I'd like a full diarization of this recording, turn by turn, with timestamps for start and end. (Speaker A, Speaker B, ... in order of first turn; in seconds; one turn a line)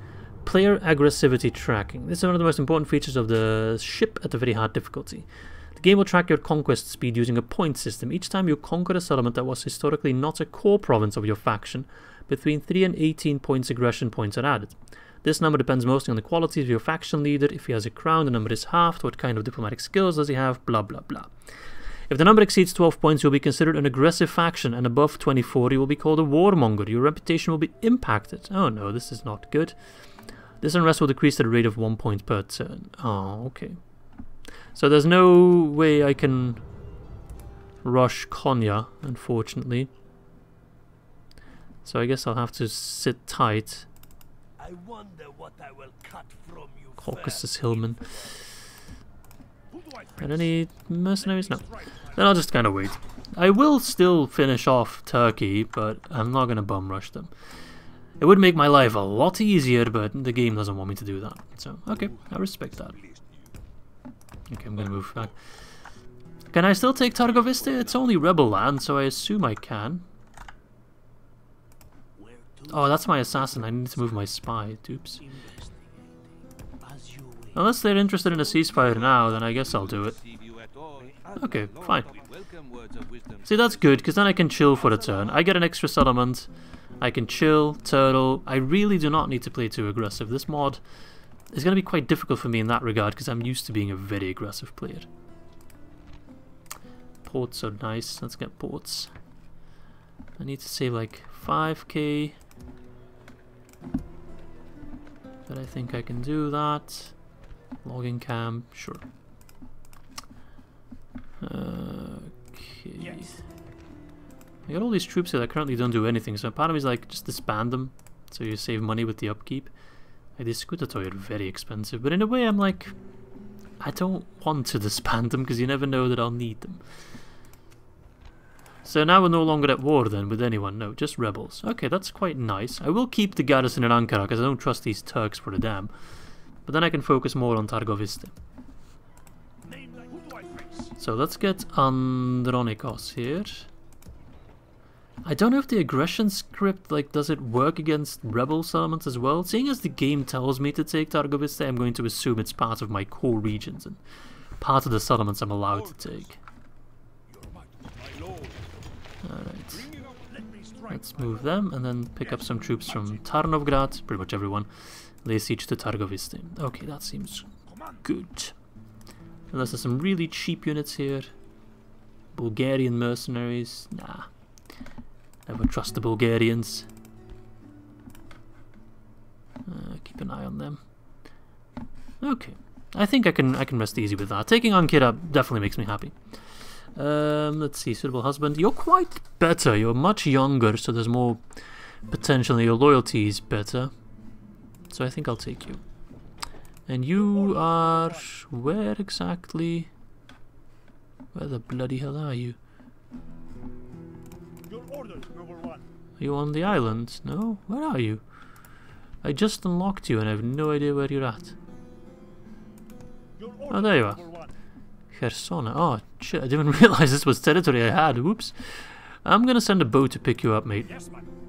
Speaker A: 0.4-21.3
Speaker A: 22.1-29.8
Speaker A: 30.6-33.8
Speaker A: 34.7-36.6
Speaker A: 37.8-39.9
Speaker A: 41.8-43.9
Speaker B: 44.6-48.4
Speaker A: 47.0-48.0
Speaker C: 49.7-50.5
Speaker A: 50.2-57.3
Speaker C: 51.2-52.5
Speaker A: 58.2-63.0
Speaker C: 63.0-63.4
Speaker A: 64.5-65.3
Speaker A: 66.5-70.0
Speaker B: 72.2-74.0
Speaker A: 72.7-75.2
Speaker B: 75.2-77.7
Speaker A: 77.5-80.2
Speaker B: 78.2-79.3
Speaker B: 80.9-82.9
Speaker A: 81.4-82.1
Speaker C: 82.0-82.3
Speaker A: 83.4-86.5
Speaker C: 84.9-85.2
Speaker A: 87.0-90.8
Speaker A: 91.5-95.1
Speaker A: 97.2-99.1
Speaker A: 100.4-102.4
Speaker A: 105.5-107.2
Speaker A: 107.8-109.0
Speaker A: 111.4-113.4
Speaker A: 114.7-119.7
Speaker A: 120.4-122.9
Speaker A: 123.8-126.8
Speaker A: 128.8-135.9
Speaker A: 136.7-138.3
Speaker C: 139.6-140.9
Speaker A: 141.0-143.7
Speaker A: 145.2-154.0
Speaker A: 154.6-156.4
Speaker C: 155.7-156.4
Speaker C: 157.3-158.7
Speaker A: 159.2-159.9
Speaker C: 159.7-161.7
Speaker A: 160.9-167.5
Speaker C: 162.2-163.2
Speaker C: 167.7-168.0
Speaker A: 168.0-168.5
Speaker A: 169.5-171.3
Speaker A: 172.3-174.3
Speaker A: 175.5-176.9
Speaker A: 179.7-180.8
Speaker A: 182.2-186.1
Speaker A: 186.9-191.4
Speaker A: 192.1-193.9
Speaker A: 194.9-195.8
Speaker A: 196.9-199.9
Speaker C: 197.2-198.3
Speaker A: 201.3-202.6
Speaker C: 204.7-205.8
Speaker A: 206.2-208.2
Speaker A: 209.2-211.6
Speaker C: 213.4-214.5
Speaker A: 213.7-214.2
Speaker A: 215.1-220.9
Speaker C: 220.8-221.3